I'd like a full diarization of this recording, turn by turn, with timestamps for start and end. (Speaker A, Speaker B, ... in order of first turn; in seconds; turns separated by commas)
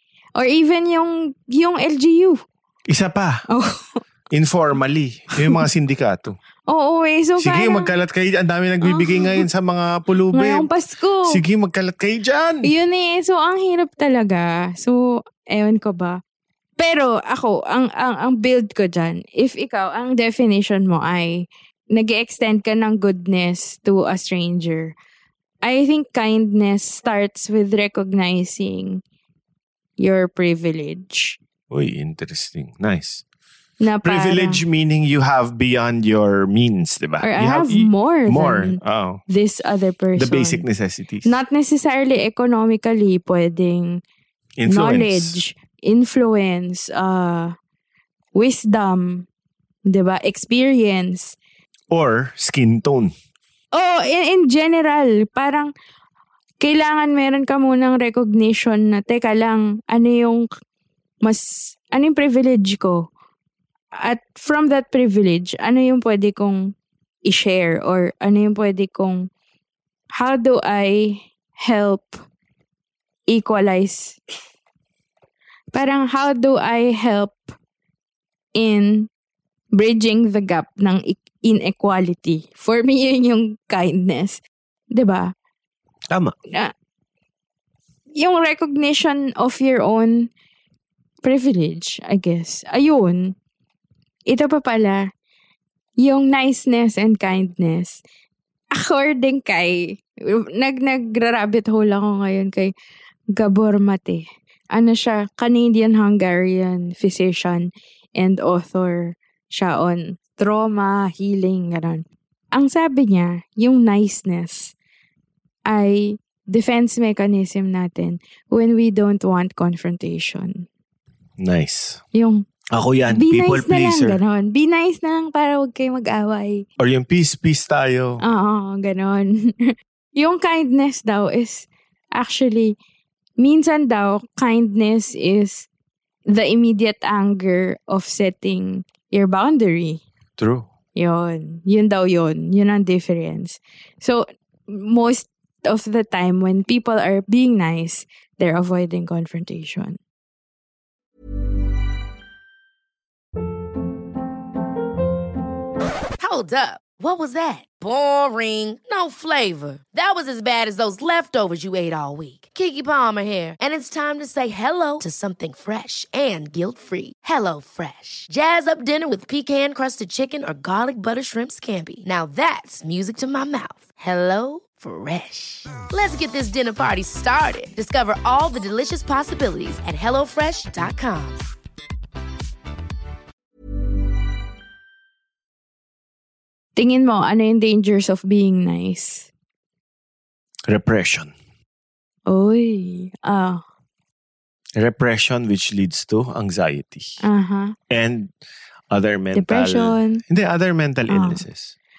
Speaker A: 0.4-2.4, Speaker B: 2.9-3.4, Speaker A: 3.5-4.0, Speaker B: 4.3-6.4, Speaker A: 6.7-7.9, Speaker B: 7.4-10.7, Speaker A: 8.8-9.4, Speaker A: 10.3-11.4, Speaker B: 11.3-12.7, Speaker A: 12.6-16.2, Speaker A: 16.8-24.9, Speaker A: 25.6-29.0, Speaker A: 30.0-31.4, Speaker B: 31.7-33.2, Speaker A: 33.8-34.6, Speaker B: 34.0-39.2, Speaker A: 37.2-40.6, Speaker B: 40.2-41.3, Speaker A: 41.2-44.0, Speaker B: 44.6-45.4, Speaker A: 44.7-47.5, Speaker A: 48.4-49.3, Speaker A: 49.9-51.4, Speaker B: 51.9-53.1, Speaker A: 53.7-55.7, Speaker A: 56.6-60.5, Speaker A: 61.2-63.1, Speaker A: 64.0-66.7, Speaker A: 67.3-69.2, Speaker A: 70.2-72.2, Speaker A: 73.3-74.2, Speaker A: 75.7-77.4, Speaker A: 78.6-79.1, Speaker A: 79.7-84.4, Speaker A: 84.9-85.3, Speaker A: 88.2-90.3, Speaker A: 91.2-93.3, Speaker A: 94.3-95.0, Speaker A: 96.0-98.0, Speaker A: 98.8-102.7, Speaker A: 103.4-114.7, Speaker A: 115.7-120.7, Speaker B: 121.4-122.0, Speaker A: 122.1-122.5, Speaker B: 122.7-124.2, Speaker A: 123.1-126.6, Speaker B: 126.8-128.2, Speaker A: 128.2-132.8, Speaker A: 133.4-135.7, Speaker A: 136.3-140.0, Speaker B: 140.4-140.7, Speaker A: 141.0-150.0, Speaker C: 156.2-181.4, Speaker A: 186.8-189.3, Speaker B: 190.7-191.3, Speaker A: 192.3-193.6, Speaker B: 194.8-197.2, Speaker A: 197.2-197.7, Speaker B: 197.9-198.3, Speaker B: 198.9-201.7, Speaker A: 199.3-200.2, Speaker A: 201.1-201.4